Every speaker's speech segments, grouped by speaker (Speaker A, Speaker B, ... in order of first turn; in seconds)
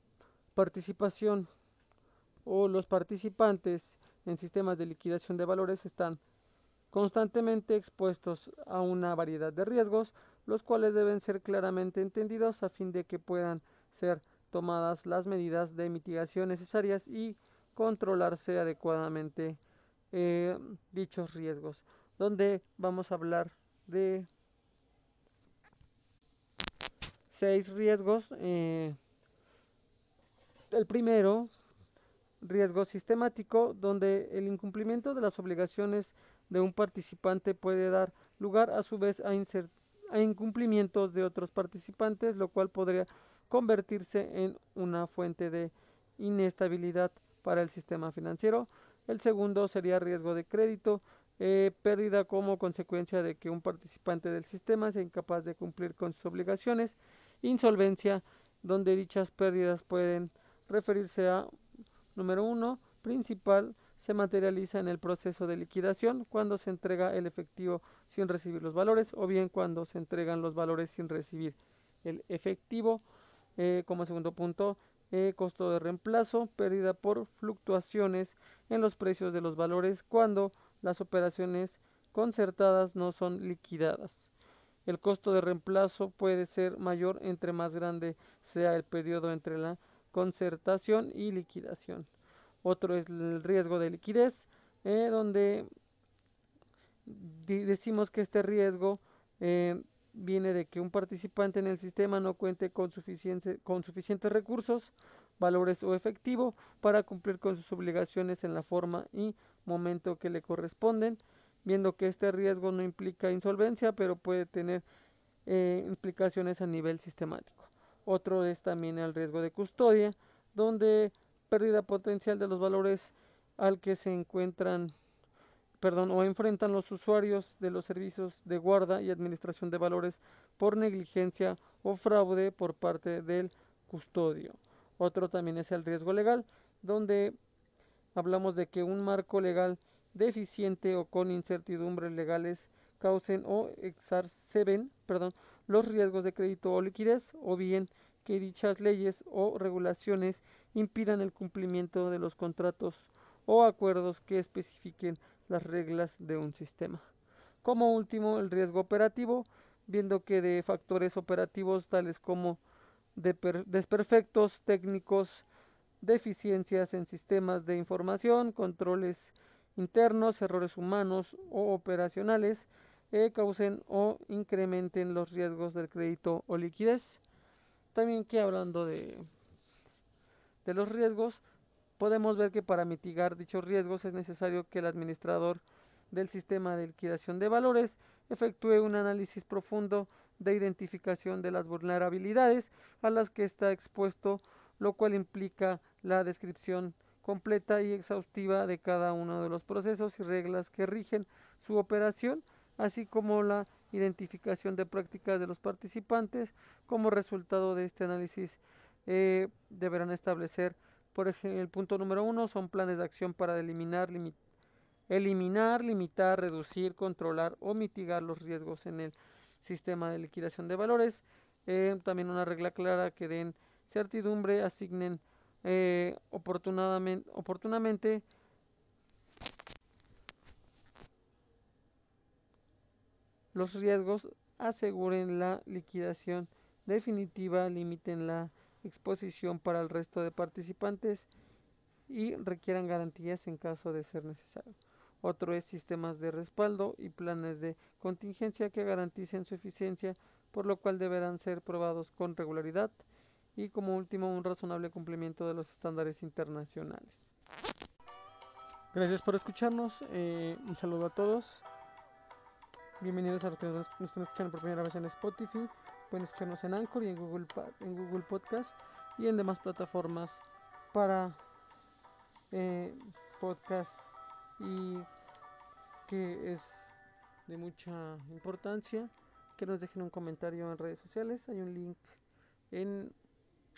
Speaker A: 0.6-1.5, 2.5-6.2, 6.9-19.6, 20.1-24.3, 27.3-29.0, 30.7-31.5, 32.4-61.5, 62.1-73.0, 73.6-84.3, 84.9-92.1, 92.6-95.7, 97.0-114.8, 115.5-124.9, 125.8-137.4, 138.2-157.0, 157.6-162.6, 163.2-165.5, 166.0-177.2, 177.9-179.2, 180.6-181.4, 182.0-214.4, 215.1-228.2, 233.5-241.3, 242.1-253.0, 253.6-257.3, 258.9-261.6, 263.0-271.4, 272.5-275.1, 276.1-276.9, 277.5-282.2, 282.7-283.1